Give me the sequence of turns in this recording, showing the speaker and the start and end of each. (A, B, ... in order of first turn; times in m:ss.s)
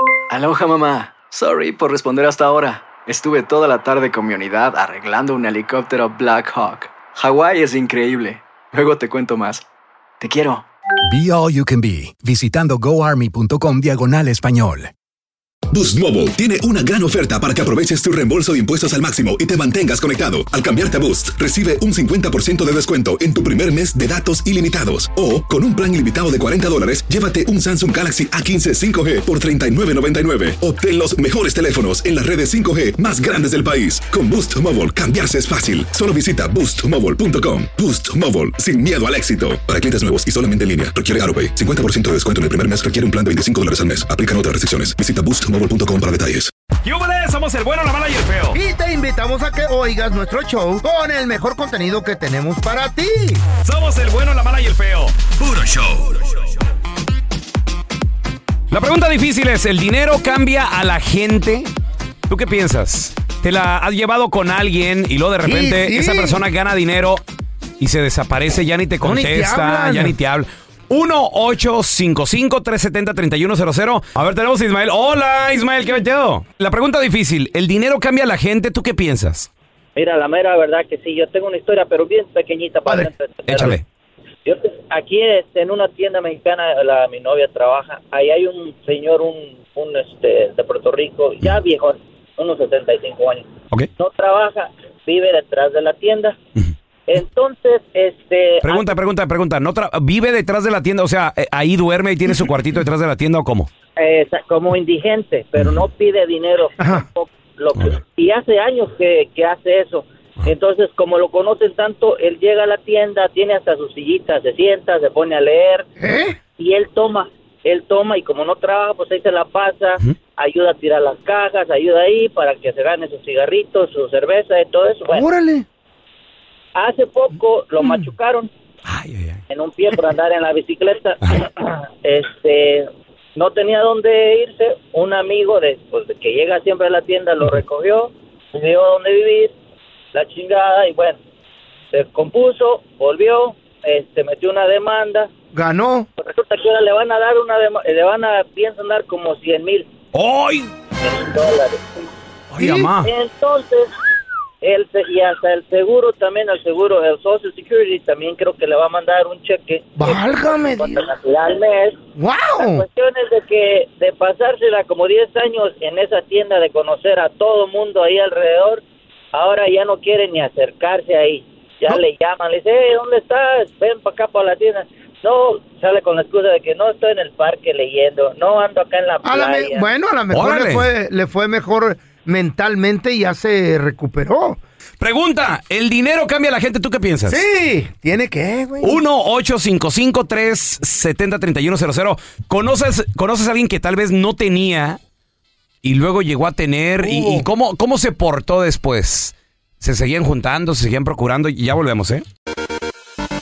0:00.3-0:09.6 A
0:10.2-0:10.6 A
0:11.1-0:14.9 B
0:15.7-0:46.5 C
0:46.8-0:48.6 D
0:48.5-0:53.4 E
0:53.6-0:56.4 D
0:58.7-1:01.7 D
1:02.3-1:07.2 D
1:05.4-1:06.4 E
1:07.8-1:19.5 D
1:09.0-1:10.2 E
1:20.0-1:23.8 F
1:22.9-1:23.7 E
1:23.5-1:23.8 D
1:24.5-1:36.4 F
1:37.1-1:38.9 F
1:38.6-1:43.7 D
1:44.0-1:55.9 F
1:56.0-1:56.4 E
1:56.6-2:05.3 F
2:05.1-2:05.7 E
2:06.8-2:08.5 F
2:08.9-2:09.4 D
2:09.5-2:19.5 F
2:20.1-2:21.2 F
2:21.9-2:25.3 F
2:25.5-2:26.1 E
2:26.2-2:29.9 F
2:30.1-2:30.7 D
2:31.0-2:31.8 F
2:32.5-2:33.1 D
2:32.6-2:32.9 E
2:33.0-2:33.9 F
2:34.6-2:42.0 F
2:40.0-2:41.0 E
2:42.2-2:42.8 E
2:42.6-2:48.8 F
2:49.3-2:59.9 F
2:59.2-3:04.6 E
3:00.3-3:00.9 D
3:05.0-3:07.4 D
3:07.3-3:09.0 E
3:08.8-3:15.0 D
3:15.8-3:22.2 D
3:17.0-3:17.5 E